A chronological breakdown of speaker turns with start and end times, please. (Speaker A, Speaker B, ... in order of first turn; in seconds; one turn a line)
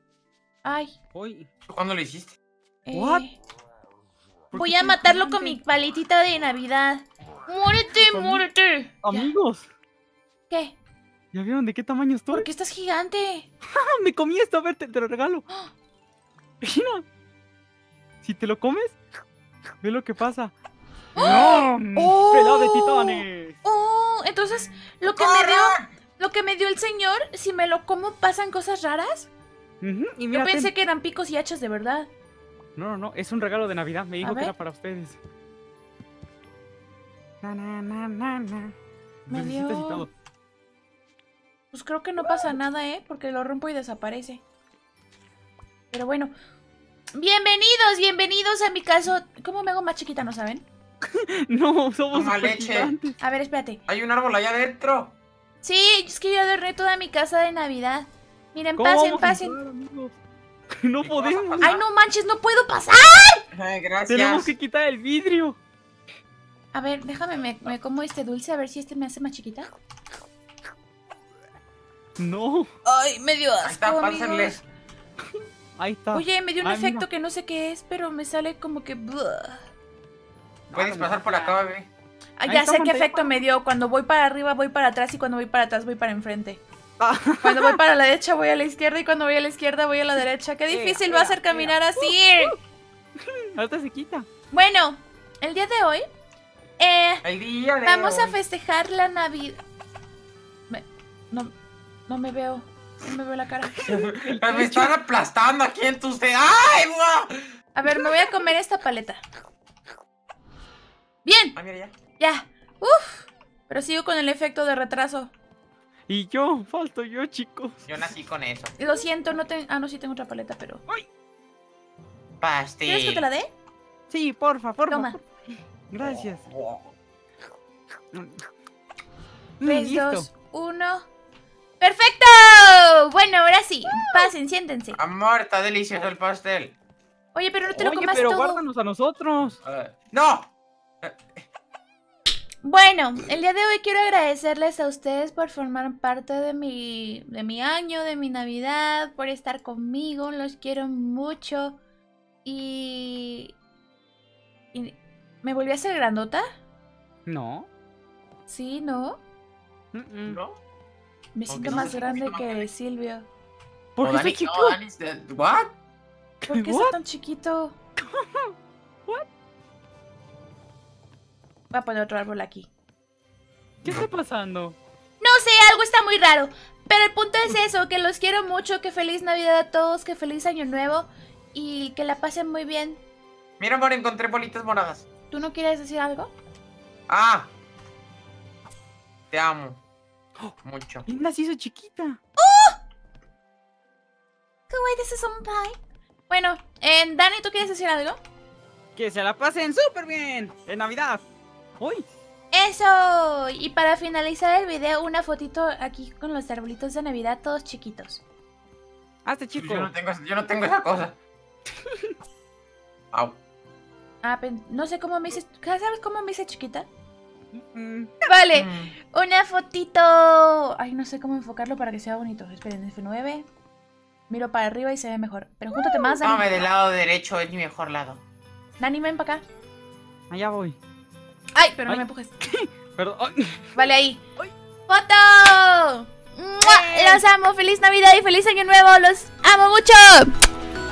Speaker A: 0.6-0.9
Speaker B: 1.1-1.5
Speaker C: 1.7-2.3
Speaker A: 2.9-3.4
Speaker B: 2.9-3.2
Speaker B: 4.5-5.6
Speaker A: 4.5-9.3
Speaker B: 7.9-8.4
Speaker B: 9.0-9.6
Speaker A: 10.5-10.8
Speaker B: 11.3-12.5
Speaker A: 12.3-13.5
Speaker B: 13.7-15.4
Speaker B: 16.6-17.0
Speaker B: 18.2-19.0
Speaker B: 19.8-20.5
Speaker A: 21.1-29.3
Speaker B: 21.1-23.6
Speaker C: 25.0-25.8
Speaker B: 29.8-30.7
Speaker A: 30.3-32.1
Speaker B: 32.8-35.2
Speaker A: 34.2-34.5
Speaker B: 37.4-38.7
Speaker B: 39.3-40.1
Speaker A: 39.3-40.1
Speaker A: 41.7-44.4
Speaker A: 45.9-46.3
Speaker A: 47.1-50.6
Speaker B: 51.1-53.1
Speaker C: 52.1-53.0
Speaker A: 53.2-53.8
Speaker C: 53.9-55.1
Speaker A: 55.6-59.6
Speaker B: 58.8-60.1
Speaker B: 60.8-61.7
Speaker C: 61.0-61.8
Speaker A: 61.6-63.4
Speaker C: 63.5-64.5
Speaker B: 64.1-65.6
Speaker A: 66.7-69.7
Speaker B: 72.2-72.7
Speaker A: 72.8-74.6
Speaker C: 73.6-74.6
Speaker B: 75.8-77.0
Speaker A: 76.1-79.6
Speaker B: 80.7-81.6
Speaker C: 80.7-81.9
Speaker A: 82.4-86.6
Speaker B: 82.5-83.3
Speaker B: 87.0-87.8
Speaker A: 87.4-92.5
Speaker B: 90.7-92.6
Speaker B: 93.5-94.3
Speaker A: 94.5-96.0
Speaker A: 96.8-97.2
Speaker C: 97.2-98.4
Speaker A: 97.8-99.6
Speaker A: 100.7-101.5
Speaker A: 102.1-103.9
Speaker C: 103.8-107.5
Speaker B: 104.1-105.0
Speaker A: 107.7-109.2
Speaker A: 111.2-111.6
Speaker C: 111.5-111.9
Speaker A: 112.2-115.3
Speaker B: 116.1-117.8
Speaker C: 117.8-118.7
Speaker A: 118.8-120.8
Speaker C: 122.4-123.2
Speaker A: 122.8-123.5
Speaker B: 124.1-125.2
Speaker A: 124.9-125.2
Speaker B: 125.9-126.4
Speaker C: 126.0-126.9
Speaker B: 129.6-130.3
Speaker A: 129.6-131.1
Speaker A: 131.8-135.0
Speaker C: 134.9-136.7
Speaker A: 137.3-138.6
Speaker B: 137.7-139.6
Speaker C: 139.6-140.5
Speaker C: 141.0-141.4
Speaker A: 142.6-151.8
Speaker A: 152.4-153.5
Speaker A: 154.7-156.4
Speaker B: 157.3-157.7
Speaker A: 158.5-159.2
Speaker B: 159.9-160.4
Speaker C: 160.2-160.6
Speaker A: 161.3-163.3
Speaker C: 161.5-162.7
Speaker B: 161.7-161.9
Speaker B: 163.9-164.8
Speaker C: 164.0-165.7
Speaker B: 166.4-166.9
Speaker A: 166.5-167.7
Speaker B: 168.0-168.5
Speaker A: 171.7-172.7
Speaker B: 173.8-174.8
Speaker A: 175.2-183.0
Speaker C: 183.6-185.0
Speaker A: 185.3-186.3
Speaker C: 187.1-187.5
Speaker C: 189.3-189.8
Speaker C: 190.6-191.1
Speaker B: 191.1-192.2
Speaker A: 192.4-192.8
Speaker A: 194.7-195.8
Speaker A: 196.3-198.2
Speaker B: 198.9-201.2
Speaker B: 201.8-202.0
Speaker A: 202.5-208.2
Speaker B: 209.2-209.9
Speaker C: 209.6-211.2
Speaker C: 213.1-213.4
Speaker A: 214.2-216.9
Speaker B: 217.5-218.1
Speaker A: 218.2-223.4
Speaker C: 218.5-218.9
Speaker A: 224.3-226.7
Speaker C: 226.2-228.2
Speaker A: 228.8-229.4
Speaker B: 230.3-230.8
Speaker A: 231.5-232.3
Speaker B: 231.9-233.8
Speaker A: 233.8-234.2
Speaker A: 234.9-240.3
Speaker B: 236.6-237.2